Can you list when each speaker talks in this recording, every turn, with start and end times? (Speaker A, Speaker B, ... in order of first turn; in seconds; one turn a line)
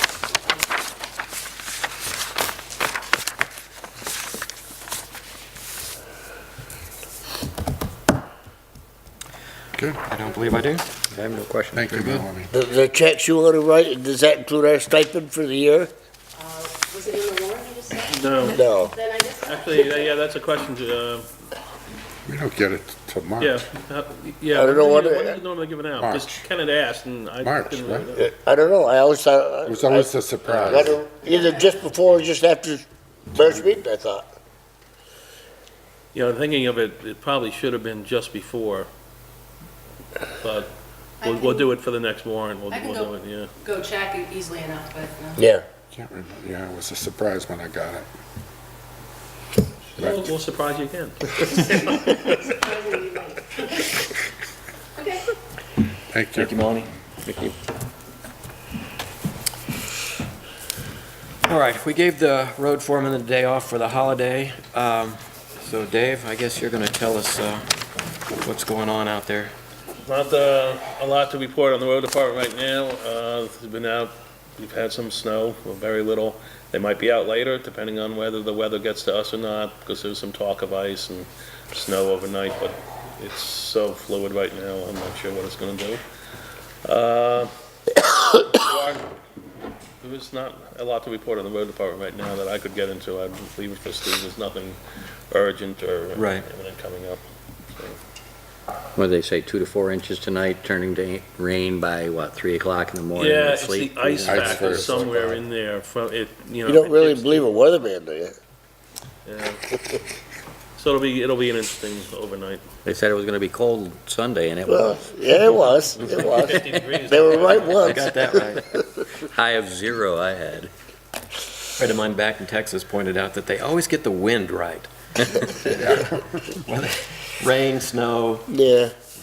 Speaker A: 0.2-0.8
Speaker B: 10.1-10.8
Speaker A: 10.3-10.5
Speaker C: 11.1-12.1
Speaker D: 11.7-12.5
Speaker B: 11.9-12.2
Speaker E: 12.5-15.9
Speaker A: 16.4-20.3
Speaker F: 18.1-18.6
Speaker E: 18.5-18.9
Speaker F: 19.5-21.3
Speaker D: 22.3-23.6
Speaker F: 23.4-28.2
Speaker E: 24.5-25.4
Speaker D: 26.0-26.4
Speaker D: 27.4-28.1
Speaker E: 28.2-34.3
Speaker D: 29.7-31.0
Speaker A: 31.2-31.8
Speaker F: 36.1-38.9
Speaker F: 40.4-43.5
Speaker A: 41.2-41.7
Speaker A: 42.7-45.5
Speaker E: 45.4-45.7
Speaker D: 45.9-48.1
Speaker D: 50.0-50.3
Speaker F: 50.0-52.2
Speaker A: 52.2-53.9
Speaker A: 55.0-55.3
Speaker D: 56.1-56.5
Speaker B: 56.3-56.9
Speaker C: 57.3-57.5
Speaker B: 61.5-67.7
Speaker B: 68.4-69.5
Speaker F: 70.0-86.0
Speaker F: 86.8-87.5
Speaker F: 88.4-89.1
Speaker F: 90.0-94.8
Speaker F: 95.3-97.2
Speaker B: 96.2-96.5
Speaker C: 99.0-105.4
Speaker F: 103.2-107.6
Speaker D: 104.2-105.3
Speaker E: 106.7-108.4
Speaker F: 109.3-109.6
Speaker F: 110.8-112.7
Speaker C: 112.8-115.2
Speaker E: 114.7-118.1
Speaker F: 116.0-117.8
Speaker B: 117.8-118.6
Speaker C: 119.2-120.7
Speaker B: 121.8-128.6
Speaker E: 128.5-128.9